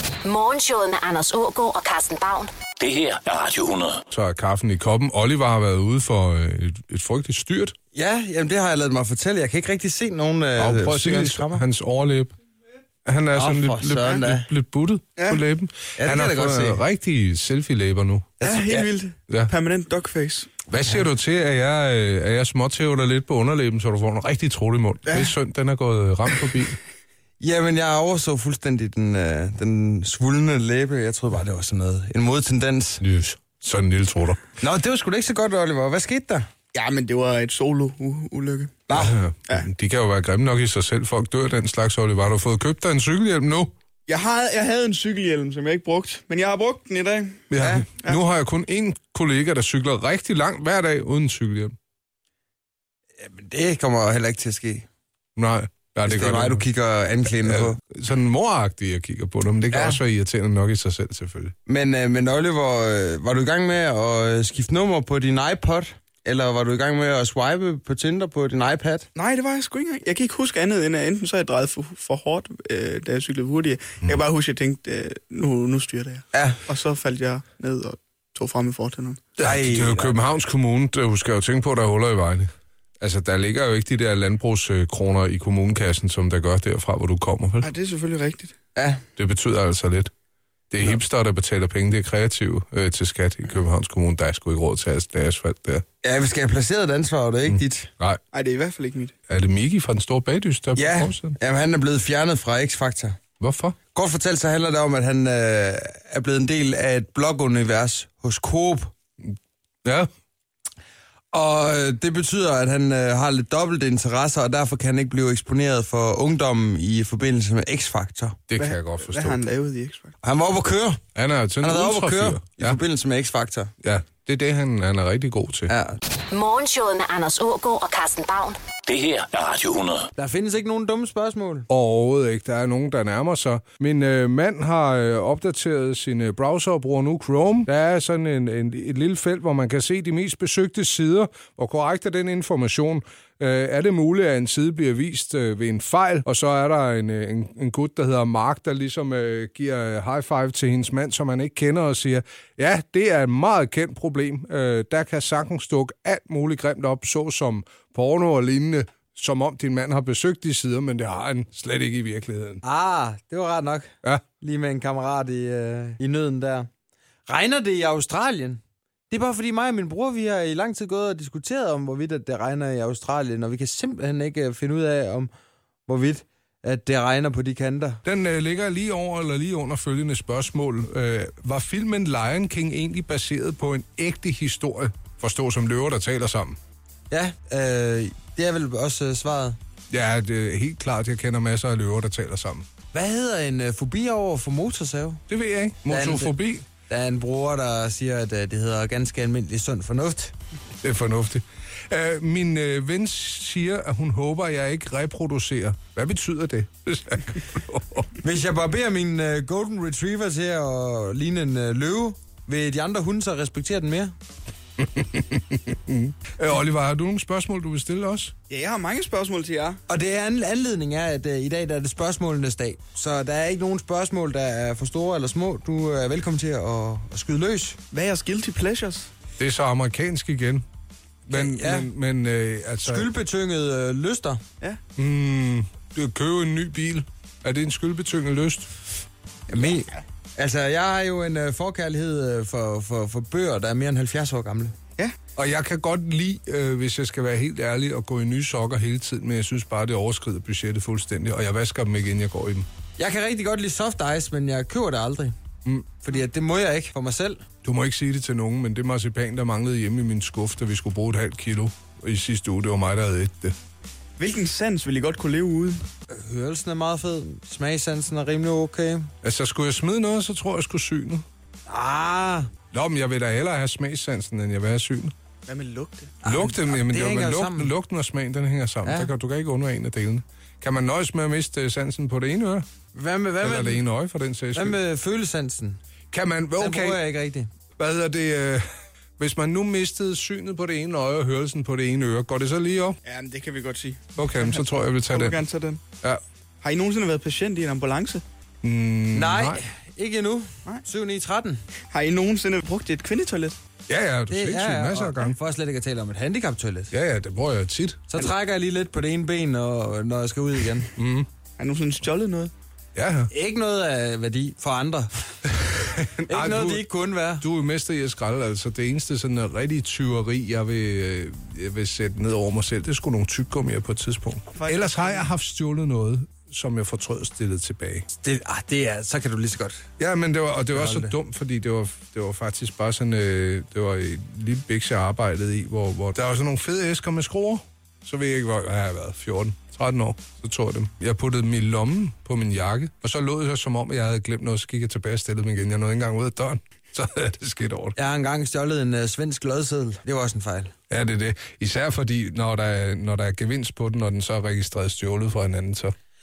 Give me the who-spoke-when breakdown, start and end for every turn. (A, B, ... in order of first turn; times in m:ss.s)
0:00.2-0:02.5 A
0:02.8-0:04.0 B
0:04.1-0:07.7 C
0:07.9-0:11.6 D
0:10.6-0:12.3 C
0:13.0-0:18.3 C
0:13.3-0:14.5 D
0:16.0-0:16.8 D
0:18.4-0:18.9 D
0:18.4-0:20.5 E
0:20.7-0:26.8 C
0:27.4-0:33.0 D
0:33.0-0:34.4 C
0:34.6-0:36.5 D
0:36.7-0:39.7 E
0:38.9-0:39.1 D
0:38.9-0:43.7 C
0:44.1-0:47.4 E
0:47.5-0:51.7 C
0:47.6-0:47.8 D
0:53.2-0:54.8 D
0:55.4-0:56.6 C
0:56.0-0:57.8 D
0:57.4-1:01.5 C
0:59.7-1:00.0 D
1:01.7-1:09.1 D
1:09.1-1:19.2 E
1:16.3-1:16.6 D
1:19.4-1:22.5 C
1:19.4-1:20.2 D
1:23.0-1:27.7 C
1:27.6-1:28.5 E
1:28.8-1:29.0 D
1:29.2-1:30.1 C
1:30.7-1:35.8 C
1:36.0-1:37.9 D
1:37.5-1:38.2 C
1:38.3-1:39.1 E
1:39.3-1:41.4 C
1:40.7-1:43.2 D
1:43.4-1:43.8 C
1:43.9-1:48.9 D
1:51.3-1:58.4 D
1:58.5-1:59.4 C
1:58.6-2:00.1 E
2:00.2-2:01.0 D
2:01.1-2:02.8 C
2:01.6-2:03.7 D
2:03.8-2:05.7 C
2:05.7-2:06.0 D
2:06.3-2:08.6 A
2:08.8-2:10.1 B
2:10.2-2:11.7 D
2:11.7-2:42.6 C
2:42.6-2:46.7 D
2:47.3-2:55.3 D
2:55.9-2:58.0 D
2:58.0-3:06.6 C
3:07.1-3:09.6 D
3:09.9-3:12.6 C
3:12.9-3:15.2 D
3:15.3-3:16.6 C
3:15.8-3:16.3 D
3:16.9-3:20.3 D
3:20.8-3:28.1 C
3:28.2-3:34.1 D
3:34.8-3:38.3 C
3:38.5-3:39.8 E
3:39.9-3:47.8 D
3:47.9-3:49.1 E
3:49.4-3:50.6 C
3:51.2-3:53.1 C
3:51.3-3:51.9 D
3:52.8-3:54.4 D
3:55.0-3:58.7 C
3:59.5-4:04.7 D
4:05.3-4:12.6 C
4:13.0-4:15.4 D
4:15.6-4:15.9 C
4:16.0-4:17.4 D
4:17.6-4:23.5 C
4:24.2-4:25.8 E
4:26.1-4:29.1 D
4:29.2-4:31.2 C
4:31.7-4:32.5 D
4:32.7-4:35.1 C
4:35.5-4:36.1 E
4:36.2-4:37.7 D
4:36.2-4:42.6 C
4:38.8-4:39.1 D
4:42.9-4:43.8 D
4:43.4-4:44.8 C
4:44.5-4:45.8 D
4:46.1-4:47.0 C
4:46.6-4:47.5 D
4:47.8-4:48.6 C
4:49.2-4:53.0 C
4:53.0-4:55.8 E
4:54.2-4:55.4 C
4:56.6-4:58.2 E
4:58.6-4:59.6 C
4:59.1-5:01.6 D
5:01.9-5:03.6 E
5:03.9-5:05.4 C
5:04.3-5:06.9 D
5:06.9-5:08.1 C
5:08.1-5:10.9 D
5:11.0-5:11.3 C
5:11.6-5:12.5 E
5:12.9-5:13.3 C
5:13.3-5:15.2 D
5:15.6-5:16.9 C
5:16.3-5:17.4 D
5:17.4-5:28.1 C
5:24.6-5:25.2 E
5:28.2-5:29.8 D
5:30.0-5:47.9 C
5:30.7-5:31.1 D
5:48.0-5:50.7 D
5:50.9-5:55.9 C